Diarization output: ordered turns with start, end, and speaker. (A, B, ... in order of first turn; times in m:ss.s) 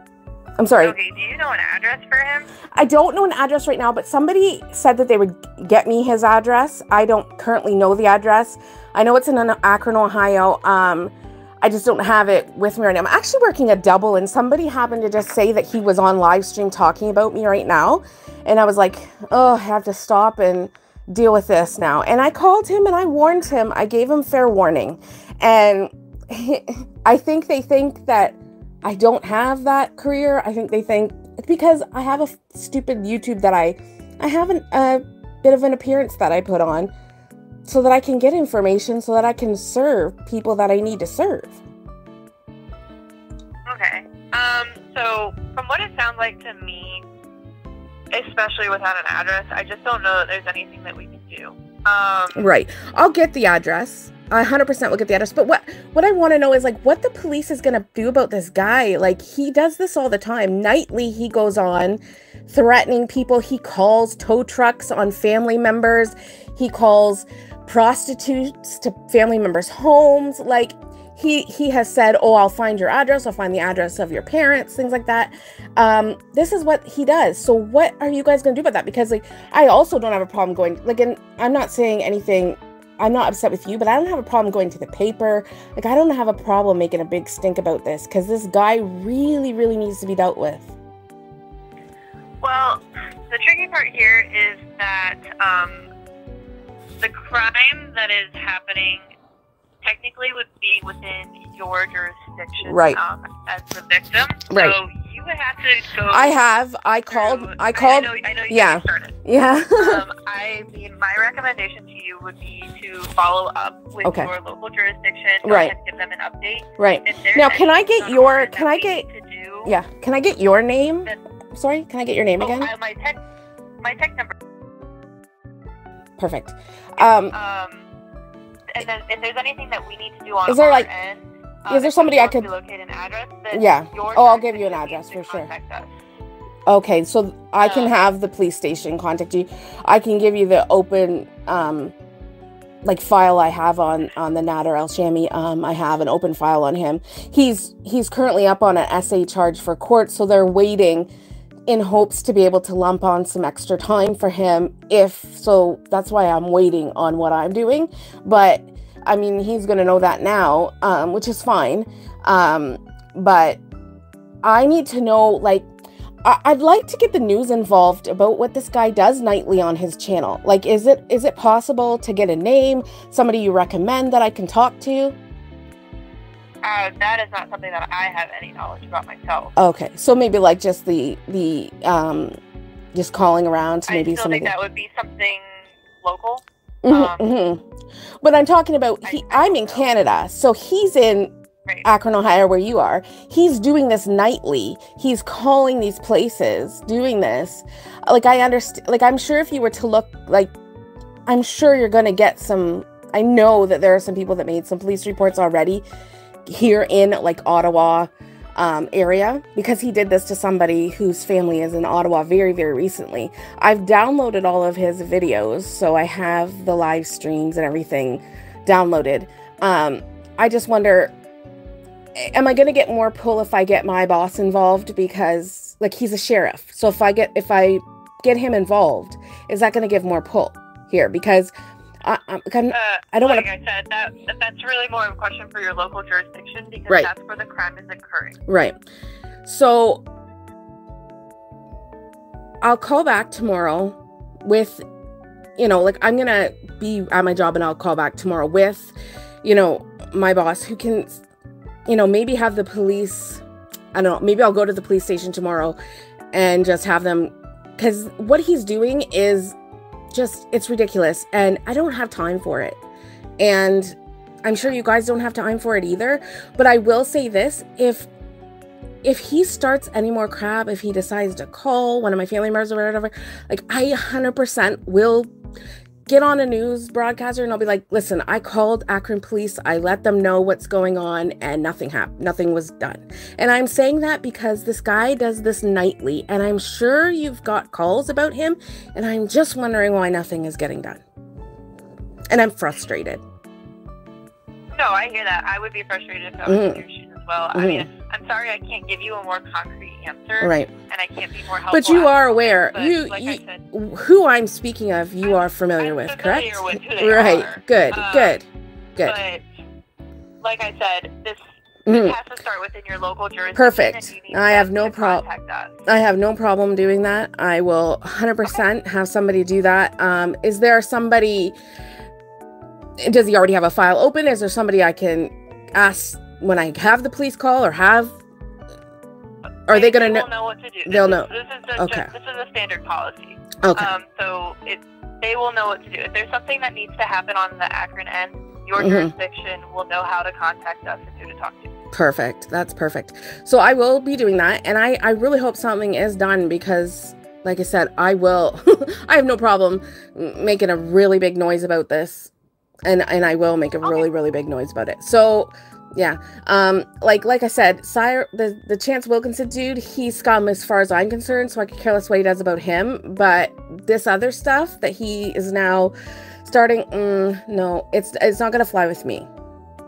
0:00.6-0:01.0 A
0:00.8-0:02.5 B
0:02.7-0:36.9 A
0:37.6-0:41.6 A
0:43.6-0:47.0 B
0:48.1-0:52.5 B
0:52.3-1:30.7 A
1:32.4-1:35.9 B
1:37.0-1:39.0 B
1:39.8-1:46.3 B
1:42.7-1:43.0 A
1:44.5-1:44.8 A
1:46.1-1:50.0 A
1:47.1-1:49.2 B
1:49.8-1:59.7 B
1:54.0-1:54.3 A
1:55.4-1:55.7 A
1:56.8-1:59.0 A
1:59.6-2:02.7 A
2:02.4-2:03.2 B
2:03.8-2:04.3 B
2:06.2-2:07.3 A
2:07.0-2:07.9 B
2:08.7-2:15.9 B
2:10.5-2:10.9 A
2:11.7-2:12.5 A
2:13.5-2:15.5 A
2:16.7-2:21.9 A
2:17.6-2:18.0 B
2:22.8-2:31.1 A
2:31.7-2:43.6 A
2:44.4-2:45.6 A
2:46.2-2:55.2 A
2:56.6-2:59.5 B
2:59.6-3:02.3 A
3:02.9-3:04.5 A
3:03.9-3:07.2 B
3:06.8-3:07.6 A
3:08.2-3:11.3 A
3:09.0-3:09.9 B
3:11.8-3:20.5 A
3:21.3-3:25.8 A
3:26.5-3:41.1 A
3:42.1-3:51.5 A
3:52.0-3:53.5 A
3:52.7-3:58.4 B
3:58.5-3:58.7 A
3:59.4-4:00.0 A
4:02.6-4:04.8 A
4:05.6-4:11.2 A
4:11.9-4:13.4 A
4:13.9-4:15.8 A
4:16.3-4:19.6 A
4:20.1-4:22.8 A
4:23.4-4:28.1 A
4:29.0-4:35.3 A
4:36.1-4:51.0 A
4:52.3-4:53.2 A
4:54.7-5:03.6 B
4:56.4-4:56.8 A
4:57.5-4:57.9 A
5:00.4-5:00.7 A
5:01.7-5:08.4 A
5:05.2-5:08.4 B
5:09.0-5:09.4 B
5:10.4-5:15.8 B
5:11.8-5:12.2 A
5:13.5-5:15.2 A
5:15.8-5:21.6 A
5:23.0-5:28.2 A
5:29.7-5:30.3 A
5:29.7-5:41.7 B
5:30.8-5:32.1 A
5:33.6-5:33.9 A
5:38.8-5:39.1 A
5:41.9-5:52.3 A
5:52.8-6:05.9 A
6:06.4-6:09.3 A